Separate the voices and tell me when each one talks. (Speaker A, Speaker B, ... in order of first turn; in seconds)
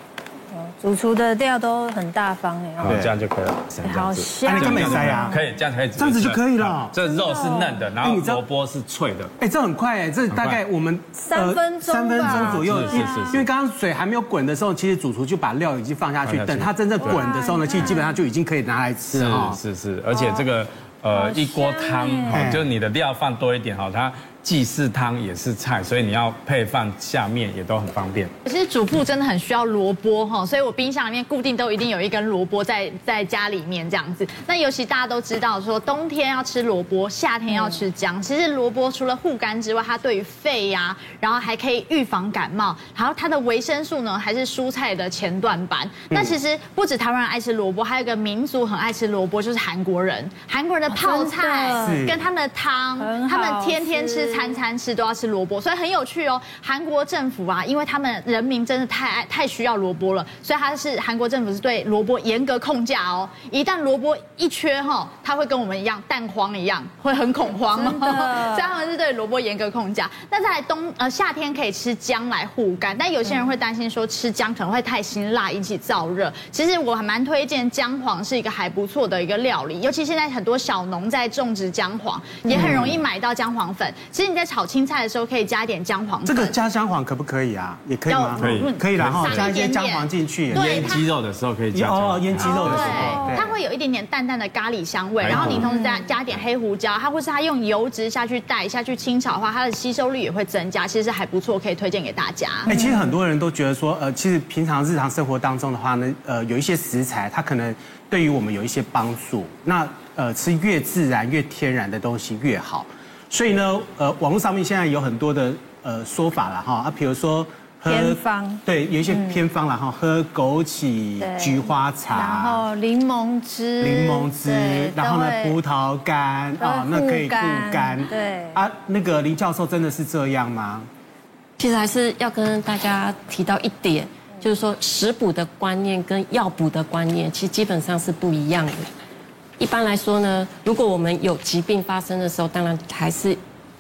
Speaker A: 0.5-3.0, 3.8-5.4, 7.0-7.8, 11.2-13.4, 17.0-18.2, 20.1-20.4, 21.1-22.4, 50.9-52.1, 53.0-54.6, 67.7-68.7, 93.1-93.3, 95.6-96.1, 102.7-103.1, 117.9-119.4, 121.2-125.6, 126.6-128.6
Speaker B: 2.8-9.3, 10.3-10.6, 12.2-13.4, 16.2-18.0, 19.1-28.3, 88.4-89.5, 90.5-93.3, 95.2-95.6
Speaker C: 4.5-5.4, 6.0-6.9, 8.0-8.4, 9.4-19.6, 22.3-22.6, 51.8-52.2, 82.5-83.0, 86.2-91.0, 91.7-93.5, 95.2-95.7, 102.7-122.6, 123.8-130.9
Speaker D: 28.4-86.5, 88.1-91.0, 92.5-102.7
Speaker E: 131.6-138.9, 139.6-143.4